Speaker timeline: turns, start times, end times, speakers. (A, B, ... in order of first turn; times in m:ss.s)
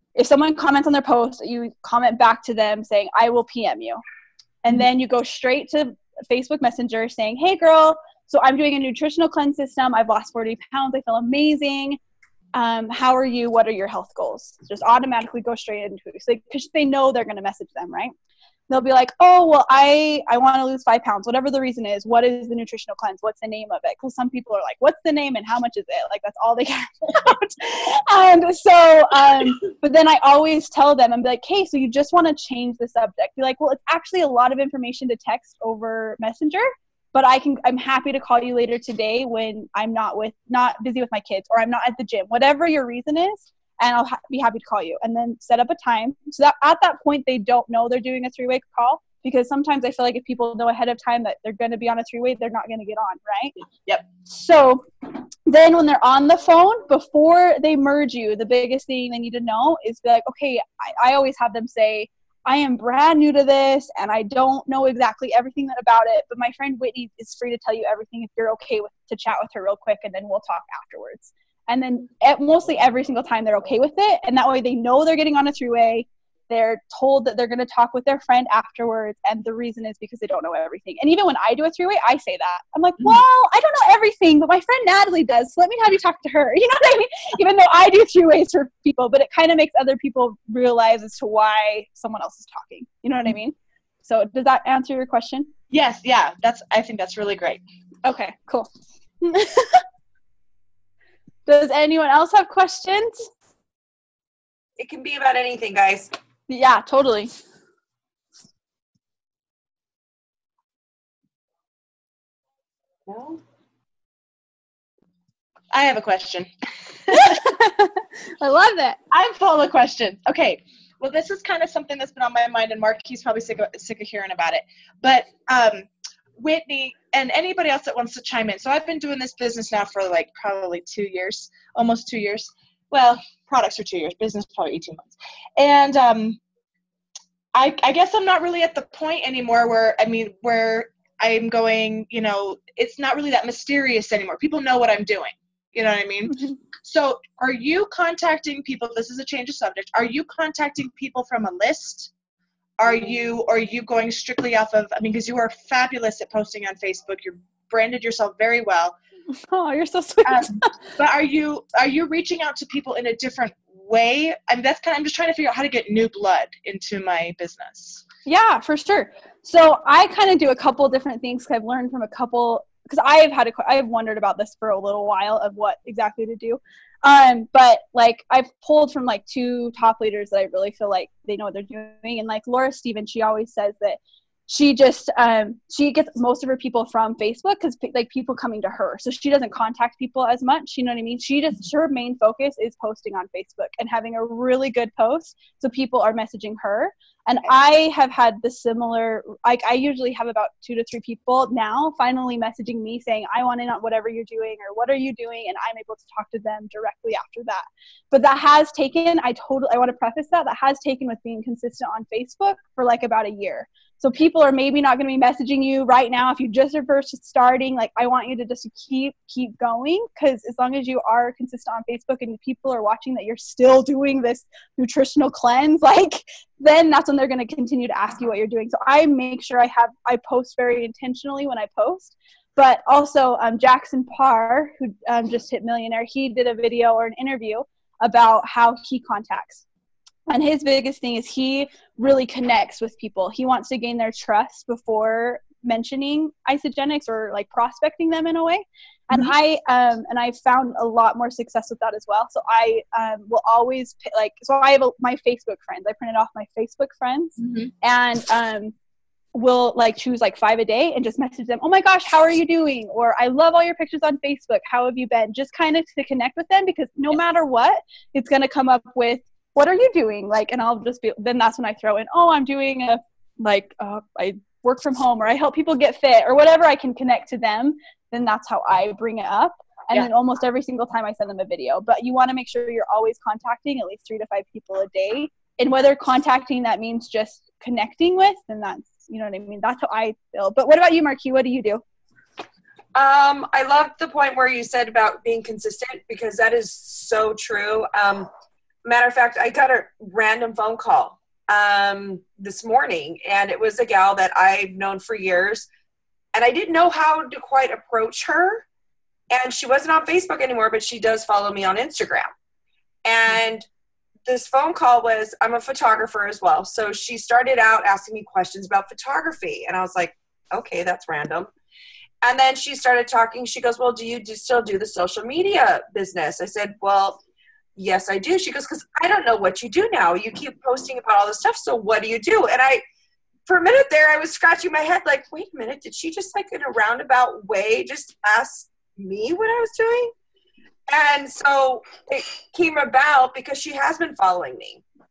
0:00.2-0:04.0 A
0:04.6-0:12.0 A
0:12.5-0:18.1 A
0:18.7-0:53.5 A
0:54.2-1:35.5 A
1:35.7-1:37.6 B
1:38.0-1:38.7 A
1:39.2-1:39.8 A
1:41.5-1:43.3 A
1:44.8-1:46.1 C
1:46.5-1:47.3 A
1:53.1-1:53.4 C
1:55.7-1:56.5 B
1:57.1-1:59.0 A
1:59.1-2:05.9 B
2:06.4-2:16.4 B
2:17.5-2:32.1 B
2:32.8-2:39.0 B
2:39.5-2:40.7 A
2:40.2-2:48.0 B
2:48.2-3:59.6 A
4:00.3-4:18.7 A
4:17.4-4:17.7 B
4:19.3-4:51.8 A
4:52.9-4:58.3 C
4:58.8-5:05.7 C
5:06.3-5:08.6 C
5:09.3-5:12.3 C
5:13.0-5:13.7 C
5:14.2-5:21.5 C
5:22.2-5:27.2 C
5:27.8-5:32.8 C
5:33.4-5:40.1 C
5:40.9-5:44.8 C